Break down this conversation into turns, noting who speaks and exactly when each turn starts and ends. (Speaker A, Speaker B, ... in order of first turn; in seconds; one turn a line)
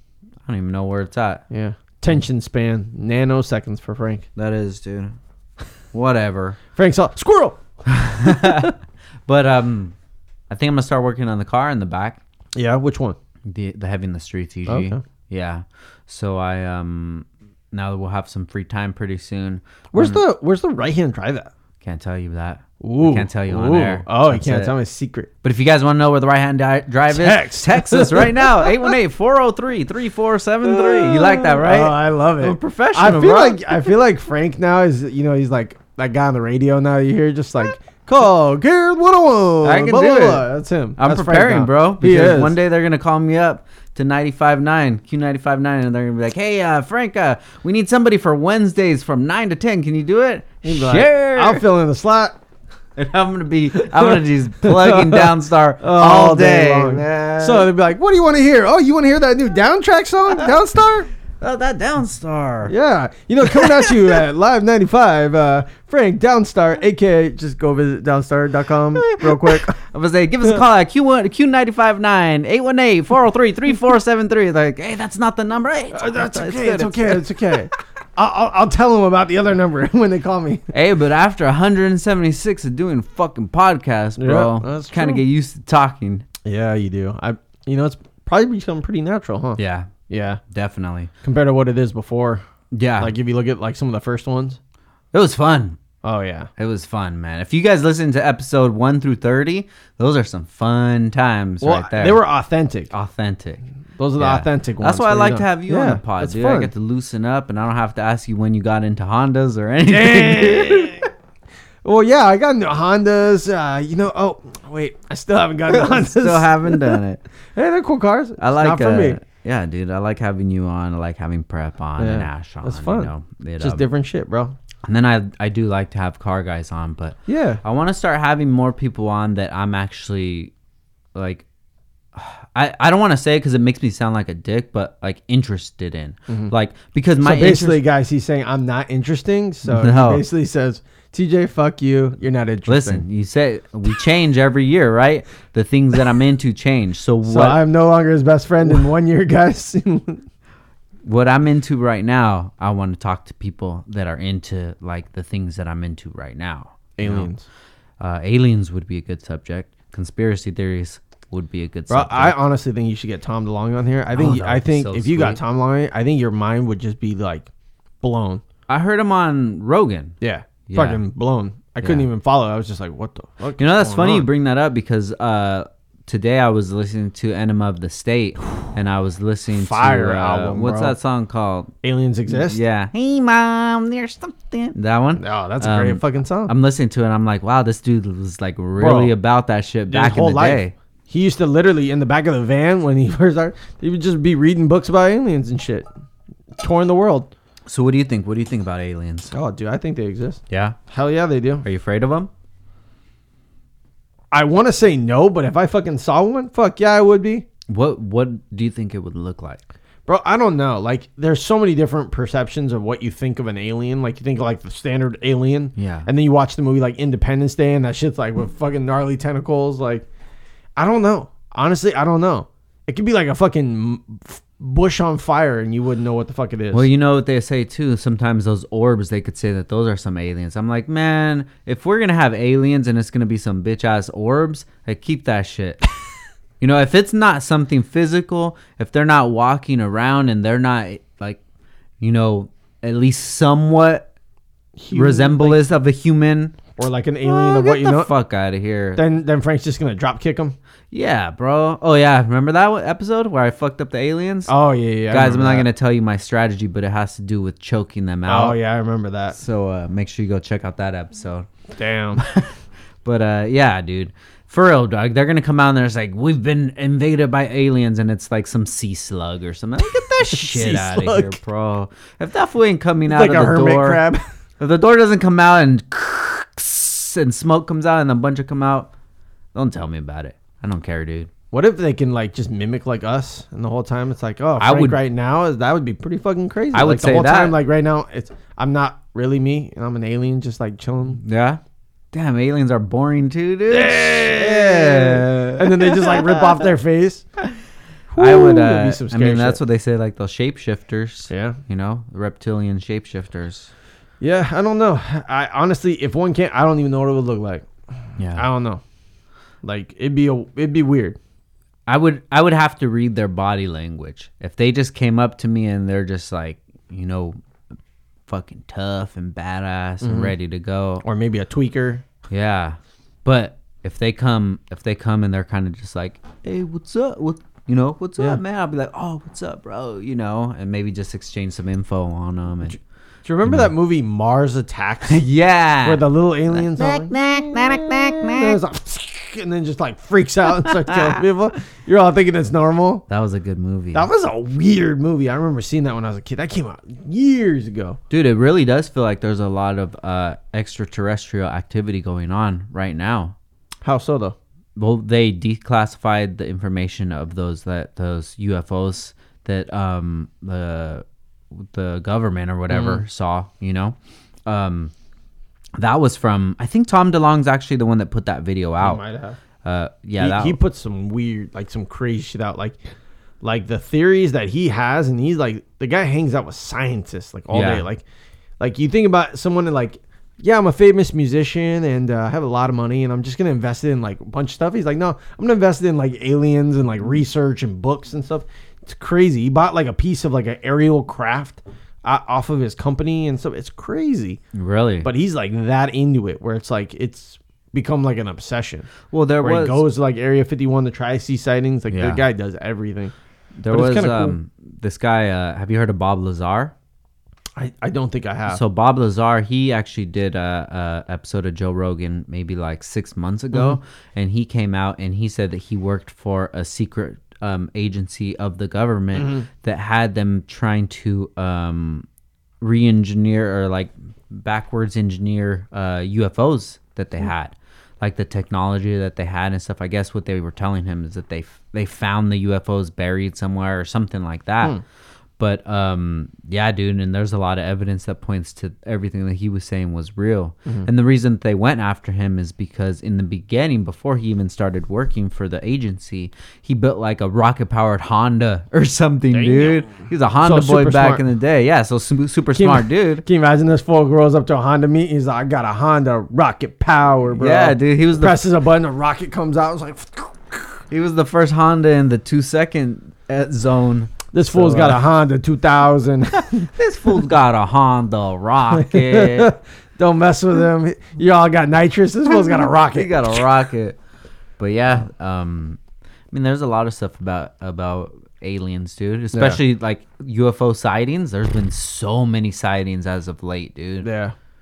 Speaker A: 0.5-1.4
Speaker B: 1.5-4.3
Speaker A: 4.4-5.1
Speaker A: 5.9-6.6
Speaker B: 6.8-8.7
Speaker A: 7.9-8.8
Speaker A: 9.3-9.9
Speaker A: 10.5-12.2
Speaker B: 12.6-13.2
Speaker A: 13.5-20.2
Speaker B: 14.7-15.0
Speaker B: 19.9-21.5
Speaker A: 21.8-24.7
Speaker B: 22.8-25.3
Speaker A: 25.4-34.0
Speaker B: 27.1-28.9
Speaker B: 30.6-42.6
Speaker A: 39.6-51.6
Speaker B: 50.6-52.4
Speaker A: 53.0-57.7
Speaker B: 53.7-61.1
Speaker A: 61.4-62.7
Speaker B: 62.7-69.8
Speaker A: 63.4-64.2
Speaker A: 69.0-77.6
Speaker B: 75.9-80.7
Speaker A: 80.7-86.3
Speaker B: 84.2-85.2
Speaker B: 86.5-90.4
Speaker A: 89.6-89.9
Speaker A: 90.5-91.1
Speaker B: 91.2-92.4
Speaker A: 92.7-93.1
Speaker B: 93.0-94.6
Speaker A: 95.1-95.8
Speaker B: 96.0-96.5
Speaker A: 96.6-102.2
Speaker B: 101.6-102.9
Speaker A: 102.9-103.6
Speaker B: 104.0-106.7
Speaker A: 104.2-111.1
Speaker B: 109.9-111.1
Speaker B: 111.8-117.0
Speaker A: 115.7-117.2
Speaker B: 117.5-119.2
Speaker A: 118.4-123.9
Speaker B: 122.0-124.6
Speaker A: 124.8-130.5
Speaker B: 127.3-127.6
Speaker A: 131.1-131.5
Speaker A: 132.2-137.8
Speaker B: 137.2-143.0
Speaker A: 139.7-140.2
Speaker A: 142.7-147.6
Speaker B: 147.2-150.2
Speaker A: 151.0-157.3
Speaker B: 157.0-157.4
Speaker A: 158.0-162.4
Speaker B: 161.9-167.5
Speaker A: 164.1-165.4
Speaker B: 168.0-168.4
Speaker A: 168.7-171.0
Speaker B: 170.2-174.3
Speaker A: 171.8-172.1
Speaker A: 173.6-181.7
Speaker B: 179.5-181.0
Speaker B: 181.8-182.6
Speaker A: 182.3-190.7
Speaker B: 185.2-186.5
Speaker B: 188.8-189.1
Speaker B: 189.9-195.9
Speaker B: 196.6-197.3
Speaker A: 197.7-199.3
Speaker B: 199.3-201.7
Speaker A: 200.5-200.8
Speaker A: 201.6-202.3
Speaker B: 204.3-207.5
Speaker A: 207.7-209.6
Speaker B: 210.1-220.1
Speaker A: 215.8-216.1
Speaker B: 220.8-226.9
Speaker A: 226.7-235.8
Speaker A: 236.6-241.4
Speaker A: 242.0-244.1
Speaker B: 244.8-245.7
Speaker A: 244.9-246.6
Speaker B: 246.8-248.1
Speaker A: 247.2-249.0
Speaker B: 249.0-250.6
Speaker A: 250.9-254.5
Speaker B: 254.5-255.7
Speaker A: 255.1-258.6
Speaker B: 258.3-259.4
Speaker A: 259.3-261.5
Speaker B: 261.8-262.2
Speaker A: 262.2-274.0
Speaker B: 269.9-271.4
Speaker B: 273.1-274.2
Speaker A: 274.6-278.9
Speaker A: 279.5-281.3
Speaker B: 281.5-291.2
Speaker A: 284.6-285.0
Speaker A: 286.7-287.6
Speaker A: 291.2-291.6
Speaker A: 292.1-296.6
Speaker B: 293.7-297.2
Speaker B: 298.1-299.6
Speaker A: 298.2-303.7
Speaker B: 301.3-301.6
Speaker B: 304.2-307.7
Speaker A: 308.2-308.4
Speaker B: 308.3-308.8
Speaker B: 309.6-311.2
Speaker A: 311.9-317.4
Speaker A: 318.3-321.0
Speaker B: 320.0-320.3
Speaker B: 321.0-322.0
Speaker A: 322.3-332.8
Speaker B: 332.7-335.2
Speaker A: 333.4-333.7
Speaker A: 335.1-338.6
Speaker B: 335.8-343.1
Speaker A: 340.5-341.2
Speaker A: 343.1-344.1
Speaker B: 343.9-348.0
Speaker A: 348.1-353.4
Speaker B: 353.8-354.4
Speaker A: 354.8-361.0
Speaker A: 361.6-364.9
Speaker B: 362.7-363.0
Speaker A: 365.8-369.0
Speaker B: 368.8-369.4
Speaker A: 369.6-370.6
Speaker B: 370.2-372.8
Speaker B: 373.4-378.0
Speaker A: 377.5-377.9
Speaker B: 378.6-394.4
Speaker A: 394.5-395.1
Speaker B: 395.0-398.9
Speaker A: 399.1-399.8
Speaker B: 399.4-403.1
Speaker A: 401.9-402.2
Speaker A: 403.6-406.7
Speaker B: 403.7-404.4
Speaker B: 407.6-408.6
Speaker A: 408.5-422.1
Speaker B: 419.2-419.4
Speaker A: 422.6-434.8
Speaker A: 435.4-453.2
Speaker B: 449.3-451.2
Speaker B: 452.6-460.8
Speaker A: 457.4-458.4
Speaker A: 460.9-465.0
Speaker B: 464.3-466.7
Speaker A: 466.4-469.5
Speaker B: 468.7-473.4
Speaker A: 472.5-474.0
Speaker A: 474.6-475.8
Speaker A: 476.3-484.1
Speaker B: 479.3-479.6
Speaker B: 484.0-484.4